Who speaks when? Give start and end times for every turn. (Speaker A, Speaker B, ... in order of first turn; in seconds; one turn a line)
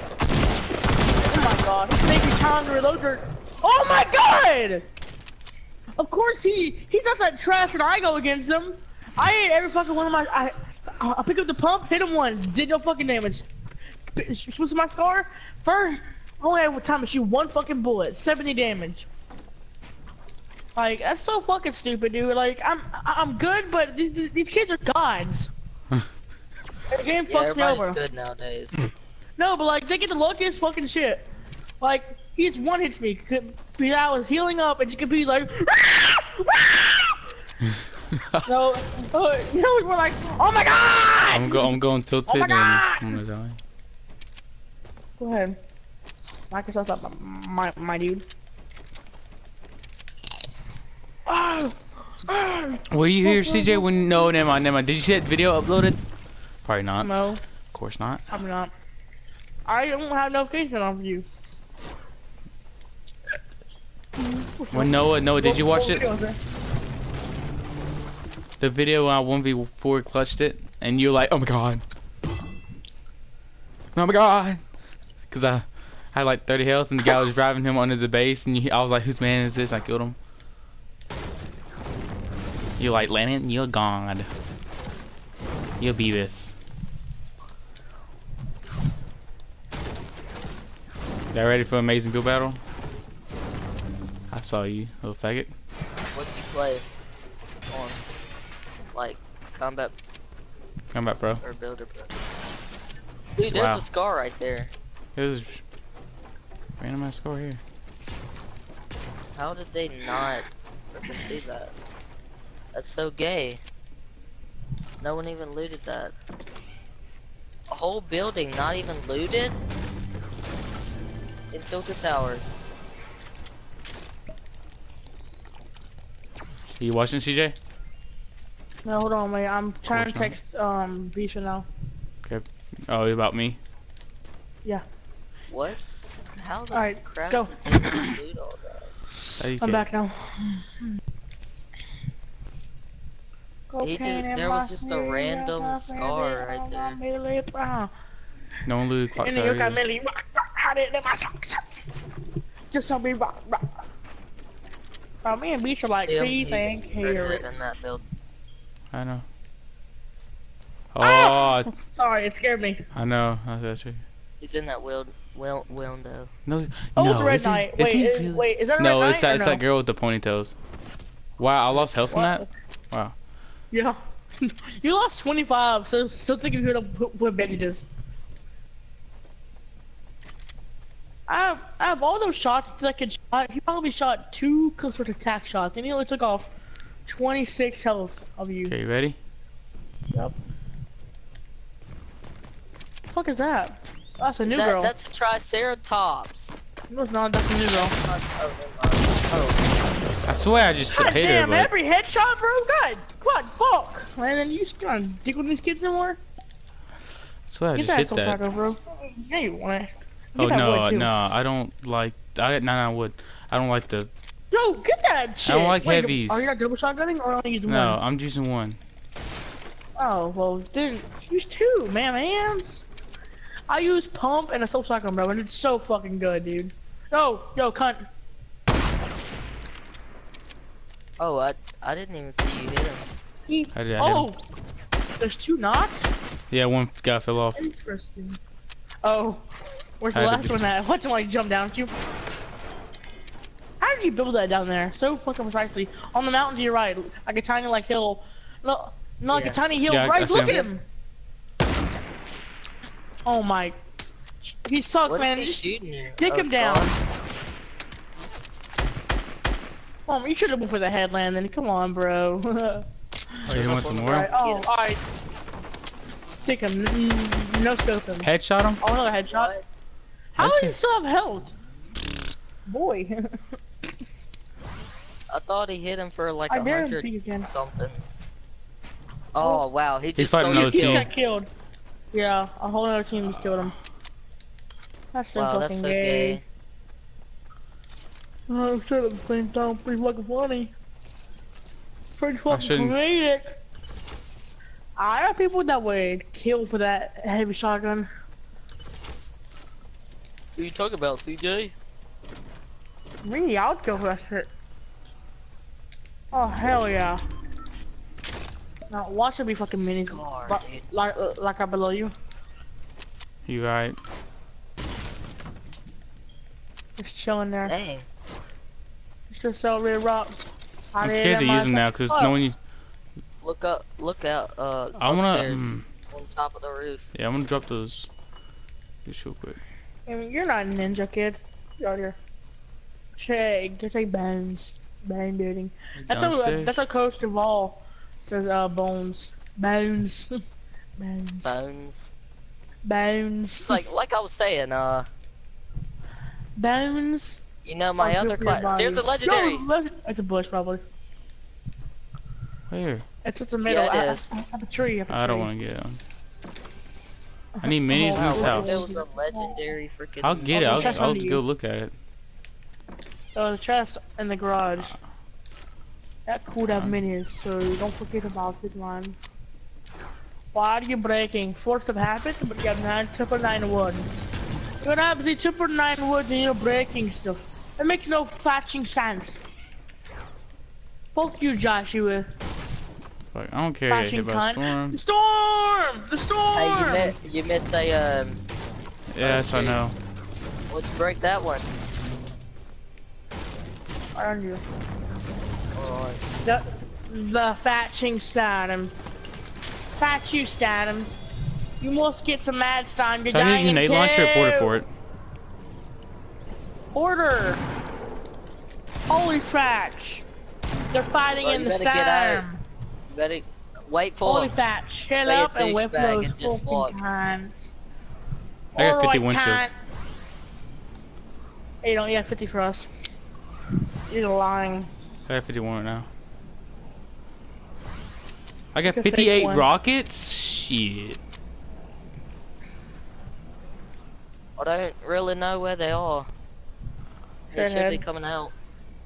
Speaker A: 1.2-4.9
Speaker A: 6.0-13.5
Speaker A: 14.1-19.1
Speaker A: 20.8-25.5
Speaker A: 26.9-28.0
Speaker B: 27.3-28.9
Speaker A: 29.4-31.3
Speaker A: 31.8-37.2
Speaker C: 38.1-38.5
Speaker A: 38.5-41.8
Speaker C: 41.3-43.6
Speaker A: 42.3-43.2
Speaker A: 45.2-45.6
Speaker A: 46.5-48.2
Speaker A: 51.3-54.3
Speaker C: 52.9-56.0
Speaker C: 56.6-57.1
Speaker A: 57.0-57.4
Speaker C: 57.7-58.2
Speaker A: 58.3-58.7
Speaker A: 59.7-61.3
Speaker A: 64.2-66.4
Speaker C: 64.7-66.0
Speaker C: 68.6-71.8
Speaker C: 74.0-74.6
Speaker C: 75.3-80.2
Speaker C: 82.8-84.3
Speaker C: 85.8-86.5
Speaker C: 91.3-92.6
Speaker C: 94.3-95.5
Speaker B: 96.1-96.8
Speaker B: 97.7-98.0
Speaker B: 98.9-99.9
Speaker C: 100.9-101.4
Speaker B: 101.4-102.1
Speaker B: 103.4-104.7
Speaker C: 103.5-103.8
Speaker C: 105.2-105.6
Speaker C: 106.8-107.6
Speaker B: 109.4-111.7
Speaker B: 112.7-113.6
Speaker B: 115.0-116.1
Speaker B: 117.7-119.6
Speaker B: 121.5-122.6
Speaker C: 126.8-127.6
Speaker A: 128.8-131.7
Speaker C: 129.9-130.4
Speaker C: 132.2-133.6
Speaker B: 135.5-135.8
Speaker B: 136.4-138.9
Speaker A: 136.7-138.2
Speaker C: 139.4-139.9
Speaker A: 139.6-140.9
Speaker A: 143.7-147.9
Speaker B: 143.8-147.0
Speaker C: 148.7-149.8
Speaker A: 149.2-151.7
Speaker A: 152.7-153.8
Speaker A: 155.2-157.5
Speaker B: 156.1-158.0
Speaker C: 158.9-159.2
Speaker C: 160.9-161.7
Speaker A: 161.0-162.8
Speaker C: 162.9-164.0
Speaker B: 164.4-166.3
Speaker C: 166.5-170.6
Speaker A: 166.9-169.6
Speaker C: 171.4-173.1
Speaker A: 171.6-172.5
Speaker A: 173.7-177.9
Speaker A: 181.3-186.5
Speaker A: 187.1-188.7
Speaker C: 188.7-189.2
Speaker A: 193.1-194.9
Speaker B: 194.4-196.6
Speaker A: 196.9-197.9
Speaker B: 197.8-199.6
Speaker C: 200.3-201.7
Speaker A: 200.9-206.2
Speaker C: 207.5-208.4
Speaker A: 207.8-211.1
Speaker C: 210.4-214.1
Speaker A: 214.5-218.0
Speaker C: 215.5-216.5
Speaker C: 217.7-218.8
Speaker A: 220.0-222.8
Speaker A: 223.7-228.0
Speaker B: 231.2-233.1
Speaker A: 233.5-234.4
Speaker C: 233.8-234.3
Speaker A: 235.2-236.1
Speaker C: 236.5-237.6
Speaker A: 237.6-238.4
Speaker A: 239.0-239.5
Speaker A: 240.0-241.9
Speaker C: 240.2-240.5
Speaker A: 243.8-250.8
Speaker B: 249.3-249.6
Speaker C: 249.9-250.6
Speaker B: 250.2-250.7
Speaker A: 253.2-253.8
Speaker A: 254.4-255.6
Speaker B: 255.1-256.9
Speaker A: 256.2-257.0
Speaker A: 260.1-262.8
Speaker C: 263.5-264.3
Speaker B: 263.5-264.7
Speaker A: 264.1-265.0
Speaker A: 266.4-268.3
Speaker C: 268.2-268.8
Speaker A: 268.8-269.5
Speaker B: 269.3-269.6
Speaker A: 270.4-271.5
Speaker C: 270.4-270.8
Speaker A: 272.7-273.2
Speaker B: 275.3-278.1
Speaker A: 276.5-277.5
Speaker B: 279.4-281.1
Speaker C: 280.2-281.1
Speaker A: 280.5-281.5
Speaker A: 282.1-283.8
Speaker C: 283.2-283.7
Speaker A: 285.1-286.4
Speaker B: 285.4-286.4
Speaker A: 288.5-290.7
Speaker A: 292.2-293.4
Speaker C: 292.5-292.9
Speaker A: 295.0-298.1
Speaker B: 300.6-301.7
Speaker A: 303.2-304.5
Speaker A: 306.3-307.2
Speaker A: 308.9-312.1
Speaker B: 309.8-310.9
Speaker C: 313.5-314.0
Speaker A: 317.0-317.7
Speaker B: 317.6-318.1
Speaker A: 319.3-322.4
Speaker C: 321.0-322.6
Speaker B: 323.4-327.1
Speaker C: 325.0-325.9
Speaker C: 327.1-328.1
Speaker C: 329.1-329.6
Speaker A: 330.1-332.2
Speaker A: 333.2-340.3
Speaker C: 336.0-336.8
Speaker A: 341.0-341.6
Speaker B: 341.4-342.1
Speaker A: 342.9-343.8
Speaker B: 343.6-345.1
Speaker A: 346.6-347.4
Speaker B: 347.6-349.6
Speaker A: 348.0-350.8
Speaker C: 352.7-353.1
Speaker A: 353.2-355.5
Speaker B: 353.6-354.4
Speaker C: 355.1-356.0
Speaker A: 357.6-359.6
Speaker C: 357.6-358.9
Speaker B: 358.1-361.1
Speaker C: 360.2-361.9
Speaker A: 360.5-361.4
Speaker A: 363.4-364.9
Speaker A: 366.3-369.2
Speaker C: 366.7-367.0
Speaker A: 370.5-374.1
Speaker A: 374.8-379.4
Speaker A: 381.1-382.3
Speaker C: 383.3-385.0
Speaker A: 383.9-387.1
Speaker B: 386.5-388.4
Speaker C: 389.1-390.0
Speaker B: 389.2-389.8
Speaker B: 390.7-391.7
Speaker A: 394.1-394.7
Speaker B: 395.8-396.2
Speaker A: 396.4-398.9
Speaker A: 400.0-401.1
Speaker A: 401.8-404.8
Speaker C: 403.3-404.9
Speaker A: 406.9-407.6
Speaker A: 409.1-410.2
Speaker A: 410.9-412.6
Speaker B: 411.4-412.4
Speaker B: 413.1-414.6
Speaker A: 414.2-417.8
Speaker B: 415.2-416.9
Speaker A: 418.8-419.7
Speaker C: 418.8-419.6
Speaker A: 421.8-422.9
Speaker A: 424.1-424.9
Speaker C: 425.3-426.1
Speaker C: 428.7-431.2
Speaker A: 428.9-429.7
Speaker B: 434.6-436.3
Speaker B: 437.5-438.5
Speaker A: 437.6-438.0